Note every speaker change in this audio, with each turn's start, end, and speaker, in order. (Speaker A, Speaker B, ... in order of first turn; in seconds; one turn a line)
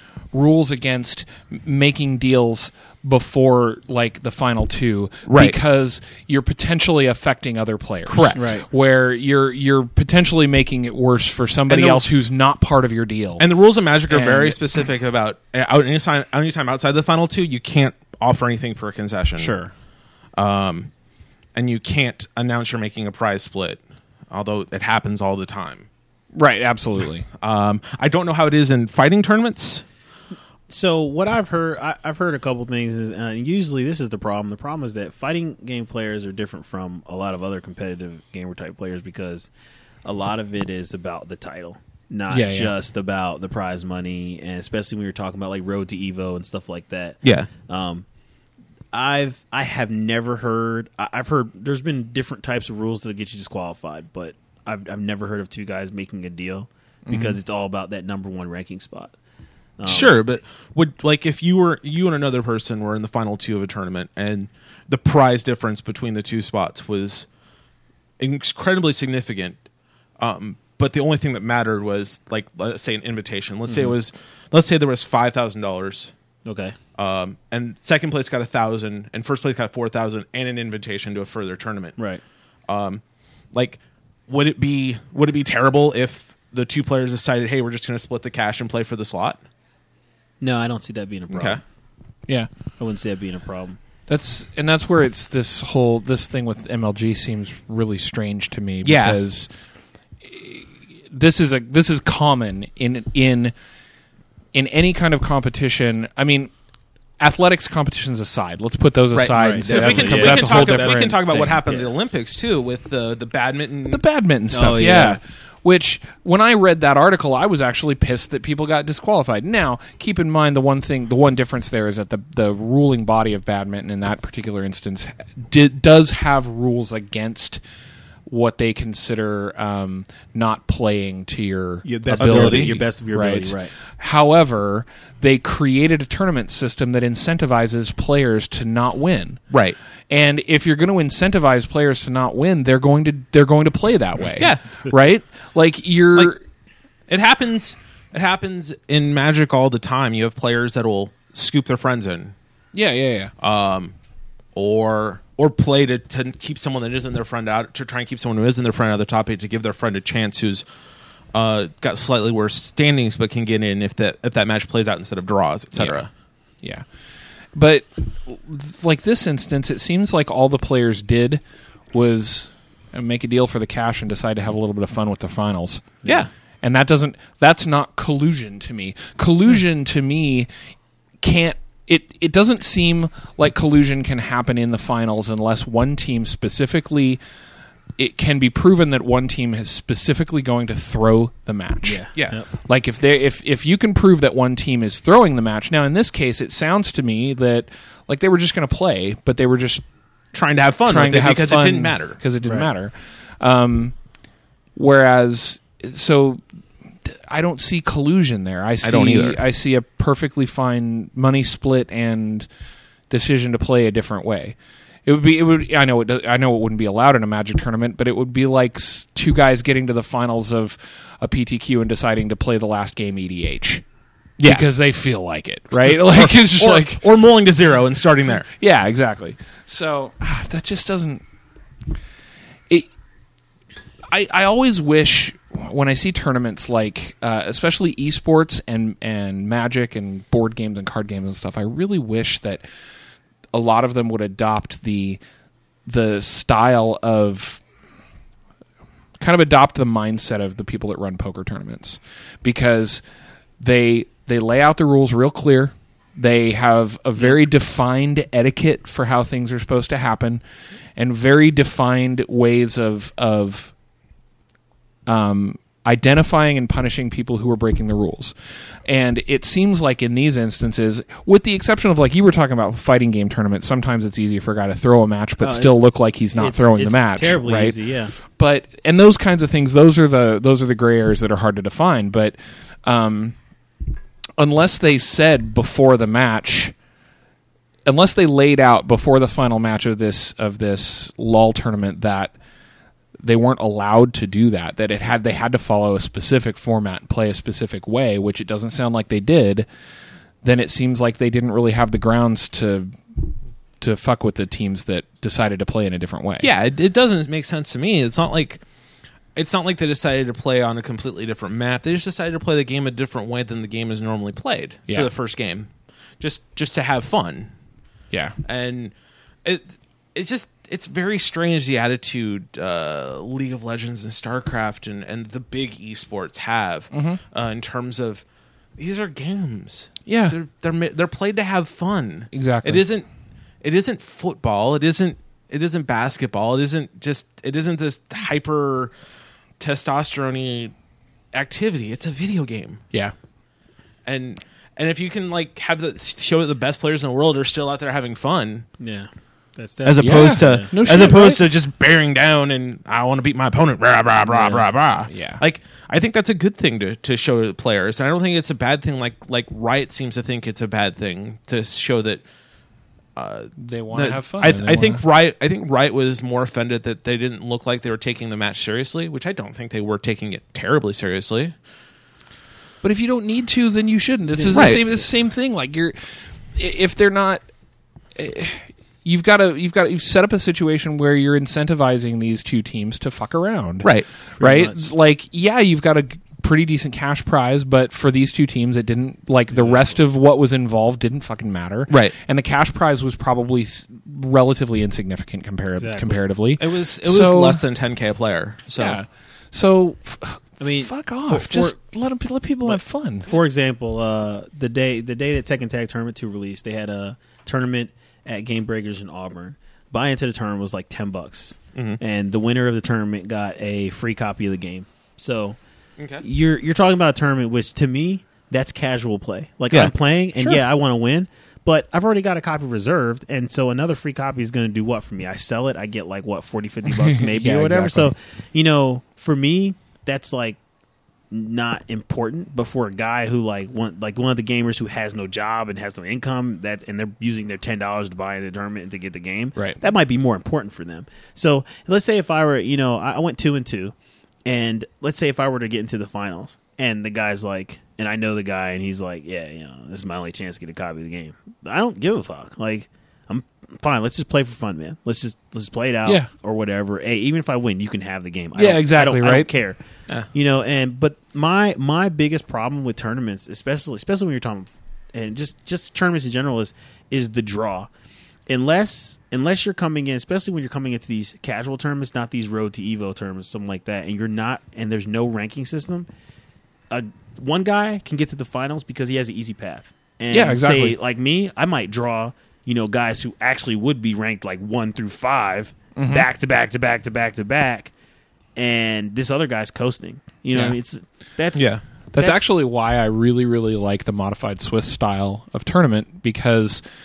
Speaker A: 0.3-13.5
Speaker B: 5.2-5.6
Speaker B: 8.1-8.5
Speaker C: 8.4-8.7
Speaker B: 11.7-12.1
Speaker B: 13.4-19.5
Speaker A: 14.1-14.6
Speaker C: 19.4-19.7
Speaker B: 20.4-20.9
Speaker B: 21.6-25.9
Speaker A: 26.3-27.3
Speaker B: 27.4-29.9
Speaker C: 30.7-39.5
Speaker C: 40.0-48.0
Speaker A: 42.3-42.7
Speaker B: 47.2-47.5
Speaker C: 48.9-59.1
Speaker A: 57.1-57.4
Speaker C: 59.8-60.2
Speaker B: 59.9-67.3
Speaker B: 68.2-69.6
Speaker B: 70.2-76.1
Speaker C: 73.7-73.9
Speaker C: 76.5-76.8
Speaker B: 77.0-82.0
Speaker B: 82.7-89.4
Speaker C: 90.4-91.6
Speaker B: 91.3-91.6
Speaker C: 92.8-93.8
Speaker A: 94.1-99.5
Speaker B: 98.8-99.2
Speaker A: 100.2-103.5
Speaker A: 104.5-106.5
Speaker A: 107.2-111.6
Speaker B: 109.1-114.0
Speaker C: 109.3-111.9
Speaker A: 113.9-127.6
Speaker C: 114.5-115.2
Speaker A: 128.3-139.4
Speaker C: 131.8-133.7
Speaker B: 132.2-132.8
Speaker B: 139.5-139.8
Speaker A: 140.1-146.4
Speaker B: 144.3-144.6
Speaker B: 147.1-152.3
Speaker A: 152.7-153.3
Speaker B: 153.4-153.9
Speaker B: 154.5-160.7
Speaker B: 161.3-166.1
Speaker A: 165.8-166.0
Speaker A: 167.6-171.4
Speaker A: 171.9-176.0
Speaker A: 176.6-180.5
Speaker A: 181.2-187.2
Speaker A: 188.0-192.0
Speaker C: 191.8-192.5
Speaker A: 192.7-199.8
Speaker B: 200.3-202.2
Speaker A: 200.9-203.9
Speaker C: 202.4-202.7
Speaker A: 204.8-206.4
Speaker A: 207.0-212.5
Speaker B: 208.8-209.4
Speaker A: 213.1-223.8
Speaker B: 224.4-224.7
Speaker A: 224.4-227.0
Speaker B: 225.7-228.5
Speaker A: 228.6-231.2
Speaker A: 234.1-242.6
Speaker A: 243.5-245.2
Speaker A: 245.9-247.6
Speaker A: 249.2-253.0
Speaker A: 253.6-260.4
Speaker A: 261.0-263.7
Speaker A: 265.1-268.3
Speaker A: 268.9-283.4
Speaker C: 275.4-275.8
Speaker C: 276.3-278.1
Speaker A: 284.4-286.7
Speaker A: 287.9-292.3
Speaker A: 293.2-299.7
Speaker A: 300.4-306.5
Speaker B: 306.4-308.6
Speaker B: 309.4-315.7
Speaker B: 316.2-317.5
Speaker B: 318.4-318.9
Speaker B: 319.4-328.2
Speaker A: 326.9-327.2
Speaker B: 328.8-333.1
Speaker A: 330.1-330.4
Speaker A: 332.3-332.9
Speaker B: 333.6-338.9
Speaker B: 339.6-340.7
Speaker B: 341.3-342.8
Speaker B: 344.1-348.7
Speaker C: 348.8-351.1
Speaker B: 349.8-362.2
Speaker A: 350.0-351.4
Speaker C: 354.3-354.6
Speaker A: 355.1-355.4
Speaker B: 363.2-371.5
Speaker A: 363.6-365.0
Speaker A: 372.8-377.4
Speaker C: 374.4-374.7
Speaker B: 374.5-374.8
Speaker A: 378.1-397.6
Speaker C: 384.4-384.9
Speaker C: 389.6-389.8
Speaker B: 391.9-392.1
Speaker C: 395.8-396.2
Speaker B: 396.6-399.0
Speaker A: 398.8-403.3
Speaker C: 400.6-401.8
Speaker C: 402.7-415.6
Speaker B: 411.8-412.0
Speaker B: 416.0-416.2
Speaker C: 416.2-430.6
Speaker A: 426.9-428.1
Speaker C: 431.3-443.9
Speaker C: 444.4-459.8
Speaker A: 458.6-459.5
Speaker C: 460.3-467.9
Speaker C: 468.5-476.1
Speaker C: 476.9-487.9
Speaker A: 480.3-480.9
Speaker A: 486.0-486.3
Speaker C: 488.6-492.4
Speaker B: 491.6-491.8
Speaker A: 492.1-496.8